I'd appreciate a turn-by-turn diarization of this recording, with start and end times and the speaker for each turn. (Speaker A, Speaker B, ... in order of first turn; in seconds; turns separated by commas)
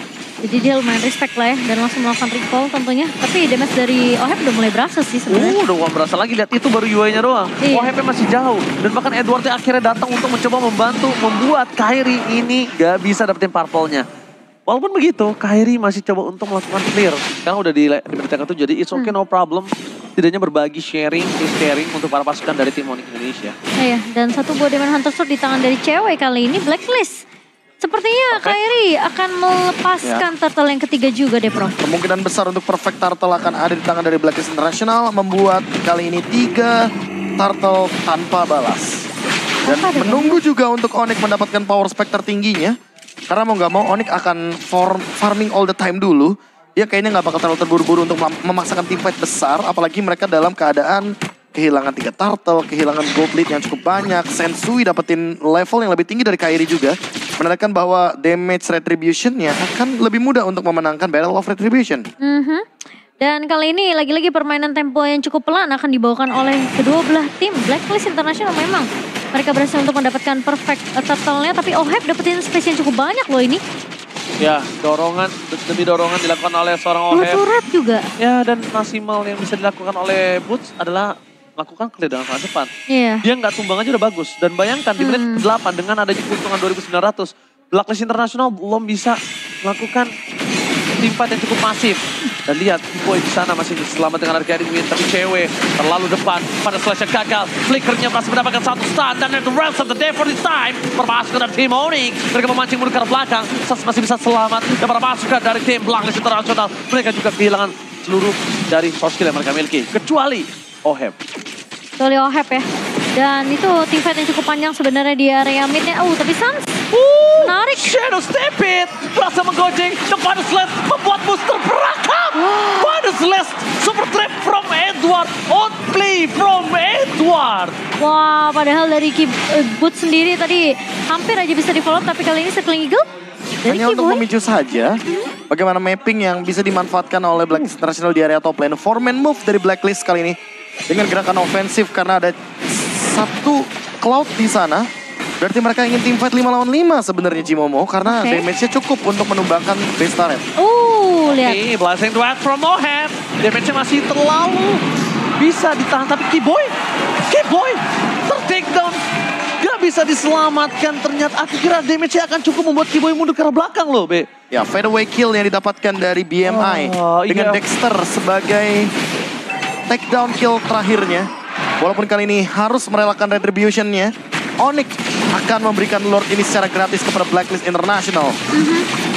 Speaker A: 0.4-5.6, Speaker B: 5.3-14.0, Speaker A: 7.6-7.9, Speaker B: 14.7-23.5, Speaker A: 23.8-27.2, Speaker A: 27.8-31.8, Speaker B: 28.3-28.6, Speaker C: 31.8-36.8, Speaker C: 37.4-39.0, Speaker A: 39.6-40.4, Speaker C: 39.7-42.7, Speaker C: 43.3-62.0, Speaker A: 62.2-62.6, Speaker A: 63.2-73.6, Speaker B: 74.4-77.4, Speaker A: 77.1-78.0, Speaker B: 78.2-82.7, Speaker A: 82.9-83.2, Speaker B: 83.2-90.1, Speaker A: 85.0-85.5, Speaker B: 91.0-111.1, Speaker A: 112.0-116.8, Speaker B: 116.9-127.8, Speaker A: 117.4-118.0, Speaker A: 122.4-122.8, Speaker A: 128.0-133.1, Speaker A: 133.6-134.2, Speaker C: 133.7-140.3, Speaker C: 140.9-144.9, Speaker C: 145.4-150.4, Speaker A: 148.0-148.4, Speaker A: 150.6-151.6, Speaker B: 151.3-154.8, Speaker B: 155.4-156.7, Speaker B: 157.3-159.0, Speaker B: 159.6-164.3, Speaker C: 164.5-168.9, Speaker B: 166.4-167.6, Speaker C: 169.9-171.3, Speaker C: 171.8-178.3, Speaker A: 178.5-178.9